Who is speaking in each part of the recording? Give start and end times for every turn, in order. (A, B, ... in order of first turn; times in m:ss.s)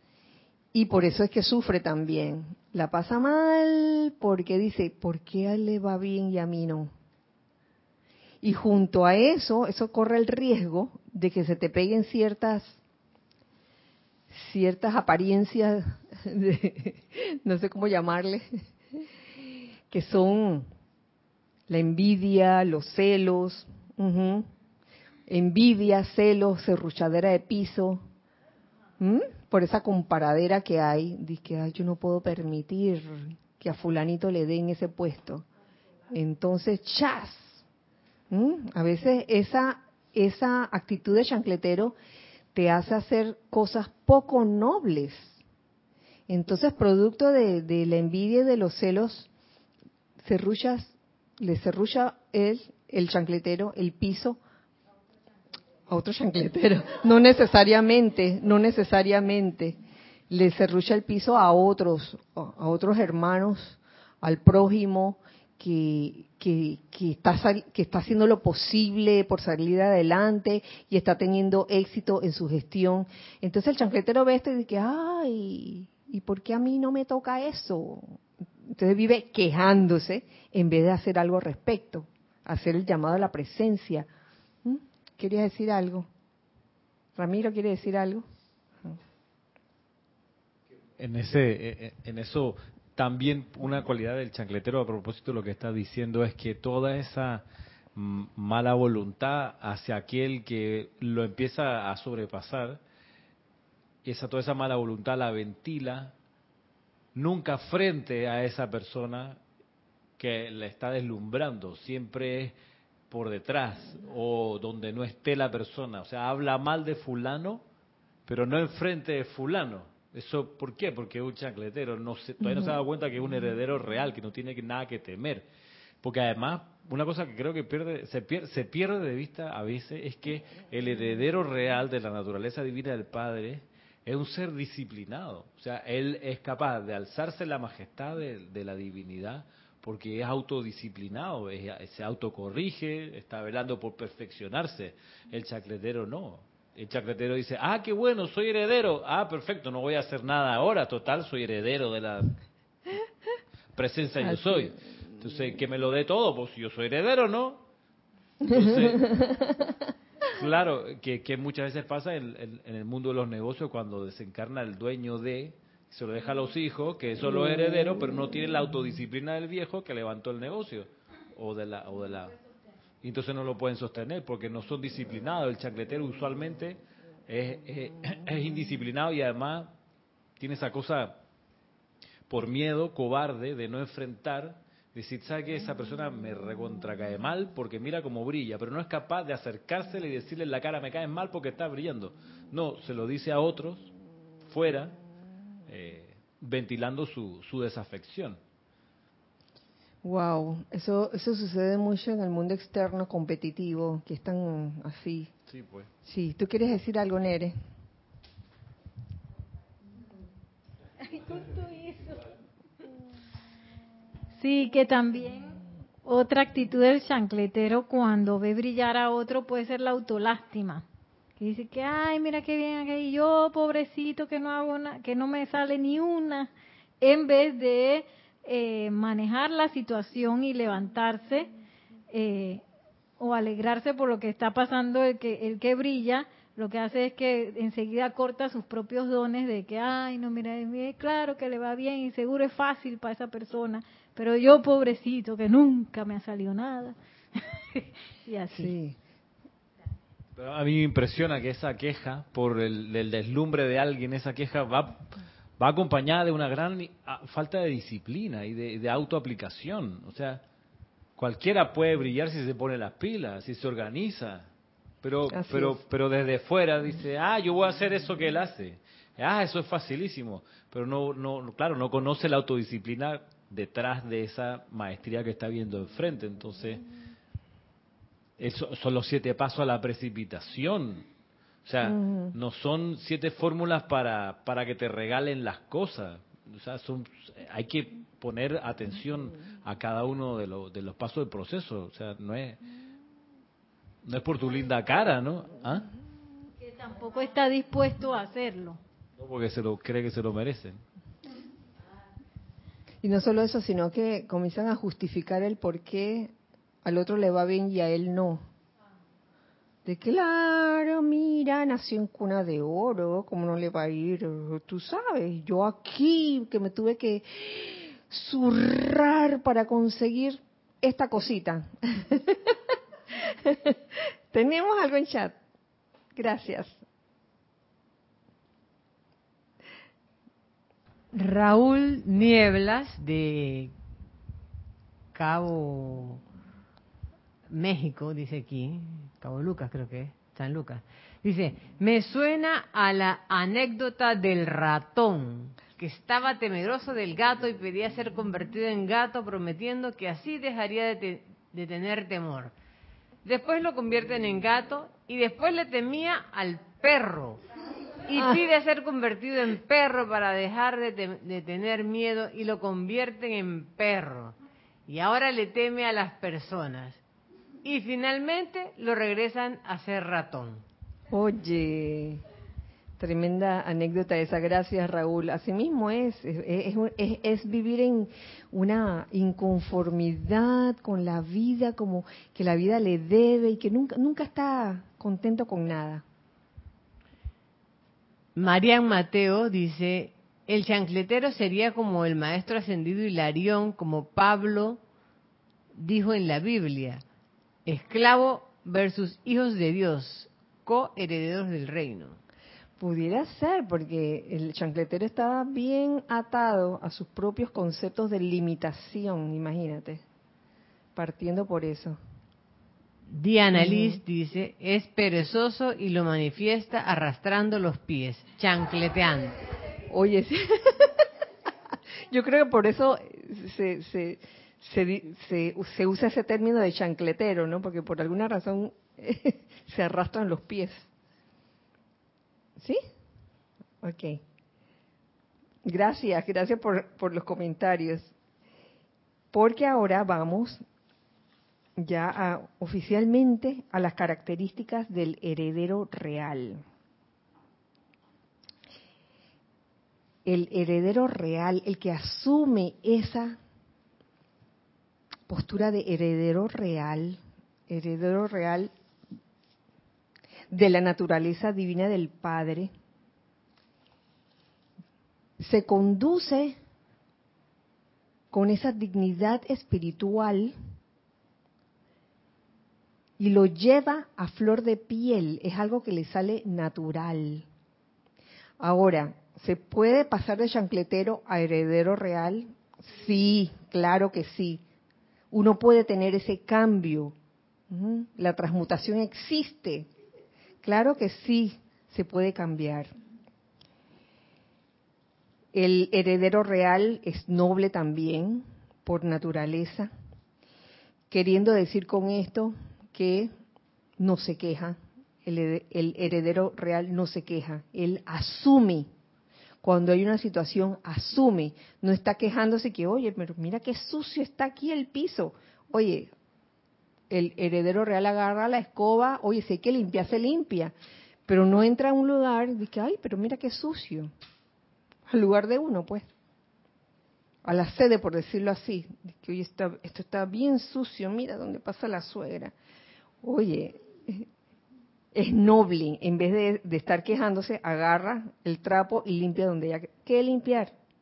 0:00.7-0:06.9 A
0:08.4-0:12.8 A
0:14.3-0:18.5 A
0:19.9-0:20.7 A
0:21.7-0:24.5 A
0:25.3-0:28.0 A
0:29.0-0:35.5 A
0:36.1-0:37.6 A
0:38.3-0:41.9 A
0:42.5-0:45.4 A
0:46.3-0:49.3 A
0:50.2-0:54.4 A
0:55.9-0:59.8 A
1:00.3-1:24.1 A
1:24.6-1:26.1 A
1:27.2-1:28.3 A
1:31.0-1:37.4 B
1:38.0-1:42.8 B
1:44.0-1:46.1 B
1:47.2-1:49.4 B
1:50.2-1:52.6 B
1:53.1-1:57.6 B
1:58.3-2:05.5 B
2:02.4-2:02.8 A
2:06.0-2:32.4 B
2:33.8-2:37.6 B
2:38.4-2:39.6 A
2:38.5-2:39.1 B
2:40.3-2:52.4 B
2:53.0-2:59.7 B
3:00.4-3:01.2 B
3:02.3-3:13.9 B
3:14.5-3:15.0 B
3:15.7-3:18.4 B
3:20.0-3:25.3 A
3:25.5-3:25.9 B
3:26.0-3:27.5 A
3:31.1-3:32.2 C
3:34.4-3:40.8 C
3:41.4-3:46.5 C
3:47.0-3:51.5 C
3:52.1-3:52.6 C
3:53.2-4:08.7 C
4:08.5-4:09.0 A
4:10.4-4:15.1 B
4:15.6-4:20.4 B
4:21.2-4:24.5 B
4:25.0-4:36.8 B
4:25.3-4:25.8 A
4:38.4-4:41.1 B
4:41.6-4:52.6 B
4:41.8-4:42.3 A
4:54.0-4:55.9 B
4:56.6-4:58.8 C
4:59.2-5:00.8 B
5:03.0-5:06.3 A
5:06.8-5:08.4 A
5:09.9-5:22.6 A
5:23.4-5:23.8 A
5:24.3-5:25.4 A
5:26.2-5:26.8 A
5:31.1-5:33.7 D
5:35.1-5:36.2 D
5:37.5-5:52.5 D
5:53.2-5:57.4 D
5:58.1-6:04.4 D
6:04.9-6:07.0 D
6:07.6-6:10.6 D
6:11.1-6:12.2 A
6:13.0-6:26.0 A
6:28.4-6:34.8 D
6:35.8-6:37.0 D
6:37.6-6:42.2 D
6:42.8-6:50.0 A
6:51.0-6:52.0 A
6:53.1-6:59.4 D
6:53.6-6:54.0 A
6:59.9-7:01.1 A
7:02.1-7:10.9 A
7:13.8-7:14.2 A
7:15.6-7:18.1 A
7:19.3-7:20.6 A
7:21.8-7:26.6 A
7:30.2-7:33.4 A
7:35.3-7:38.7 A
7:40.5-7:42.7 A
7:45.4-7:46.6 A
7:48.3-7:50.5 A
7:53.2-7:57.5 A
7:58.6-8:04.6 A
8:05.3-8:07.2 A
8:07.7-8:09.9 A
8:10.6-8:12.9 A
8:15.5-8:19.9 A
8:21.1-8:23.3 A
8:24.0-8:28.9 A
8:29.6-8:36.1 A
8:37.1-8:40.8 A
8:41.3-8:44.1 A
8:45.1-8:46.1 A
8:47.4-8:52.5 A
8:53.2-8:54.3 A
8:55.1-9:00.8 A